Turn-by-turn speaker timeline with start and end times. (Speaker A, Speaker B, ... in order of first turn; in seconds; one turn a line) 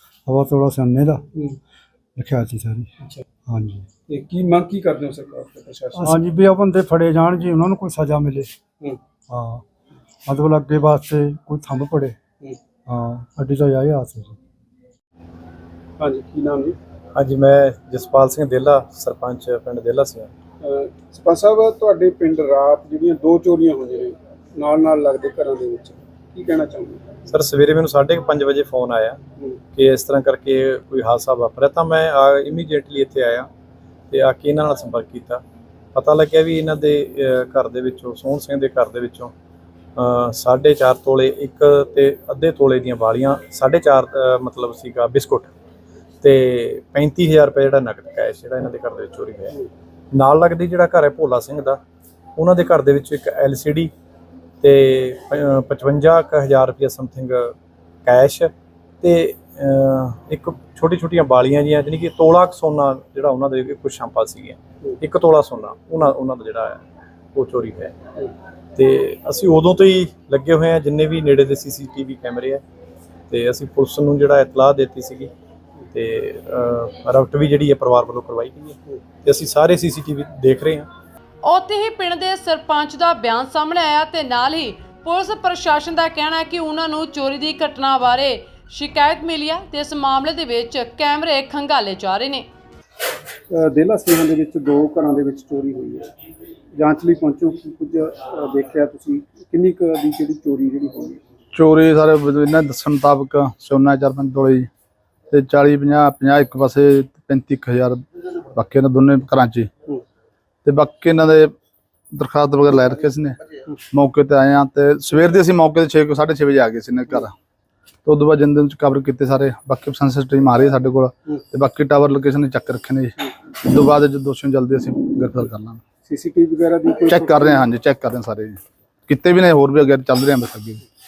Speaker A: 0.2-1.3
Speaker A: 2.1-2.9
Speaker A: 3.5-3.9
Speaker B: 4.1-6.2
Speaker A: 6.0-8.5
Speaker A: 9.3-9.6
Speaker A: 10.2-12.2
Speaker A: 12.9-14.3
Speaker B: 16.0-16.8
Speaker C: 17.1-20.3
Speaker B: 20.6-27.1
Speaker C: 27.3-29.2
Speaker C: 29.7-33.5
Speaker C: 34.1-35.4
Speaker C: 35.9-39.3
Speaker C: 40.0-45.5
Speaker C: 46.2-49.6
Speaker C: 50.1-51.8
Speaker C: 52.4-53.9
Speaker C: 54.6-57.5
Speaker C: 58.0-66.8
Speaker C: 67.3-68.0
Speaker C: 68.8-72.6
Speaker C: 73.3-75.3
Speaker C: 75.9-80.9
Speaker D: 81.4-92.5
Speaker B: 93.5-96.1
Speaker B: 96.7-101.2
Speaker E: 101.5-104.7
Speaker E: 105.3-108.0
Speaker E: 108.5-109.7
Speaker E: 110.6-111.5
Speaker E: 112.1-117.3
Speaker E: 118.0-125.8
Speaker B: 126.0-127.6
Speaker E: 127.1-130.8